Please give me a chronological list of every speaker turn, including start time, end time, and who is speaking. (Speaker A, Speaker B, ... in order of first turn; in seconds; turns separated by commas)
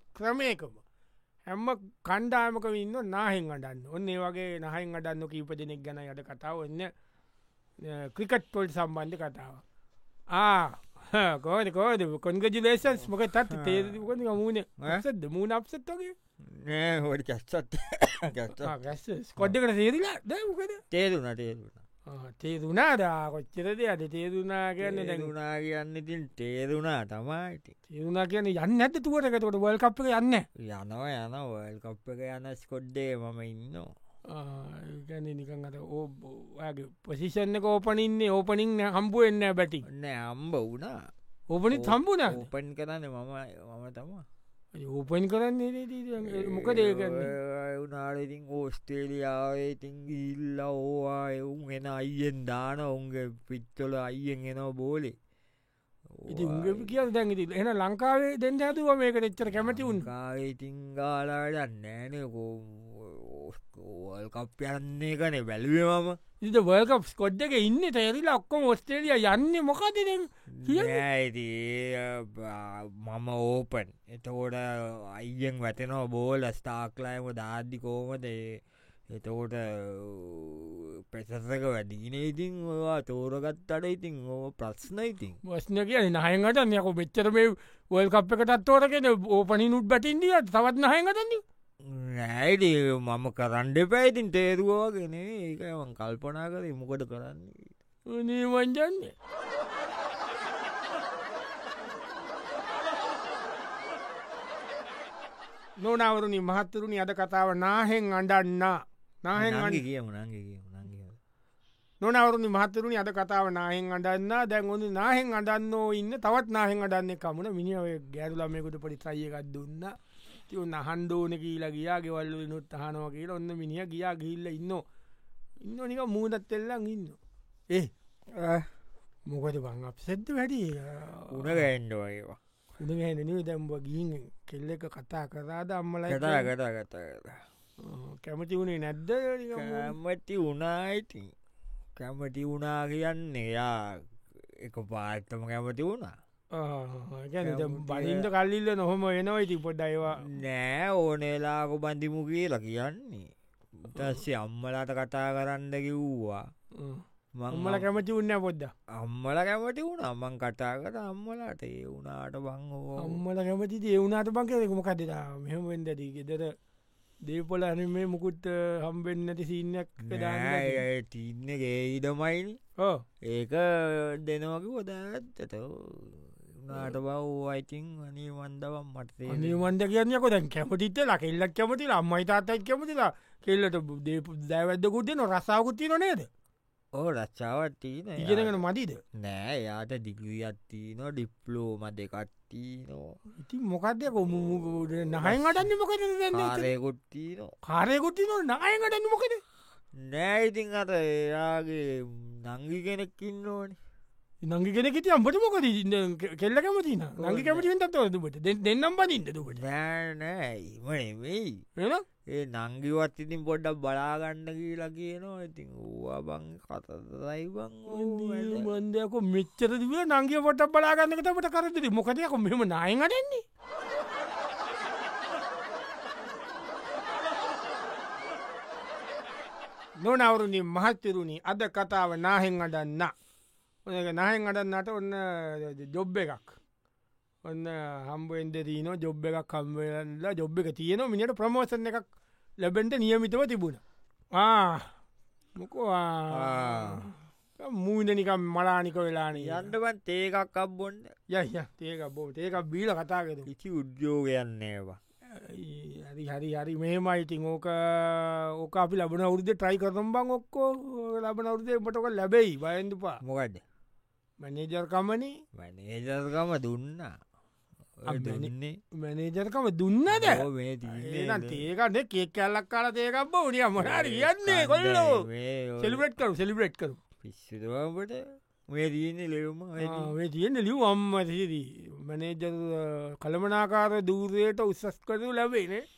Speaker A: 0.1-0.8, Speaker A: 1.5-6.9, Speaker A: 7.8-9.6, Speaker A: 10.3-16.1, Speaker B: 13.5-14.1, Speaker B: 16.4-18.7, Speaker A: 18.6-20.8, Speaker B: 20.9-21.8, Speaker A: 22.1-25.3, Speaker B: 24.8-27.7, Speaker A: 27.9-30.4, Speaker B: 30.7-33.9, Speaker A: 34.3-39.8, Speaker B: 39.9-41.0, Speaker A: 41.5-42.5, Speaker B: 41.7-44.2, Speaker A: 44.8-47.3, Speaker B: 46.2-55.1, Speaker B: 56.2-57.0, Speaker A: 56.3-60.1, Speaker B: 59.5-66.2, Speaker A: 66.4-71.0, Speaker B: 70.6-85.4, Speaker A: 85.4-91.4, Speaker B: 91.9-97.7, Speaker A: 98.1-99.1, Speaker A: 105.8-109.8, Speaker B: 109.3-111.2, Speaker A: 112.0-119.9, Speaker A: 120.5-124.8, Speaker A: 125.6-127.2, Speaker B: 128.3-128.7, Speaker A: 129.3-131.6, Speaker B: 131.3-132.4, Speaker A: 132.8-136.5, Speaker B: 136.1-137.4, Speaker A: 137.8-139.9, Speaker B: 139.6-141.3, Speaker B: 142.0-144.0, Speaker B: 144.6-146.2, Speaker A: 146.5-150.2, Speaker B: 147.4-148.3, Speaker B: 150.2-153.3, Speaker B: 153.8-156.4, Speaker A: 156.8-158.7, Speaker B: 157.4-157.8, Speaker B: 159.0-163.2, Speaker A: 163.0-166.5, Speaker A: 167.3-170.8, Speaker B: 170.0-172.6, Speaker B: 173.3-179.6, Speaker A: 179.3-186.3, Speaker B: 186.9-188.6, Speaker A: 188.2-189.0, Speaker B: 189.2-193.2, Speaker A: 193.4-196.7, Speaker B: 195.2-195.7, Speaker B: 196.3-197.5, Speaker A: 197.7-199.4, Speaker B: 200.0-203.8, Speaker A: 204.4-209.6, Speaker B: 207.2-207.7, Speaker B: 209.5-211.6, Speaker A: 211.8-212.0, Speaker B: 212.3-218.7, Speaker A: 217.9-223.4, Speaker A: 230.0-233.1, Speaker A: 233.8-236.6, Speaker A: 237.4-242.1, Speaker A: 242.6-243.8, Speaker A: 244.3-244.9, Speaker A: 245.6-249.7, Speaker B: 246.3-247.1, Speaker B: 249.3-251.1, Speaker A: 251.3-253.5, Speaker B: 253.5-255.0, Speaker A: 255.3-263.2, Speaker B: 263.2-263.6, Speaker A: 264.4-265.3, Speaker B: 265.6-267.1, Speaker B: 268.0-268.8, Speaker A: 268.1-275.2, Speaker B: 270.1-271.6, Speaker B: 273.8-276.1, Speaker A: 275.8-277.0, Speaker B: 277.2-280.1, Speaker A: 279.8-285.8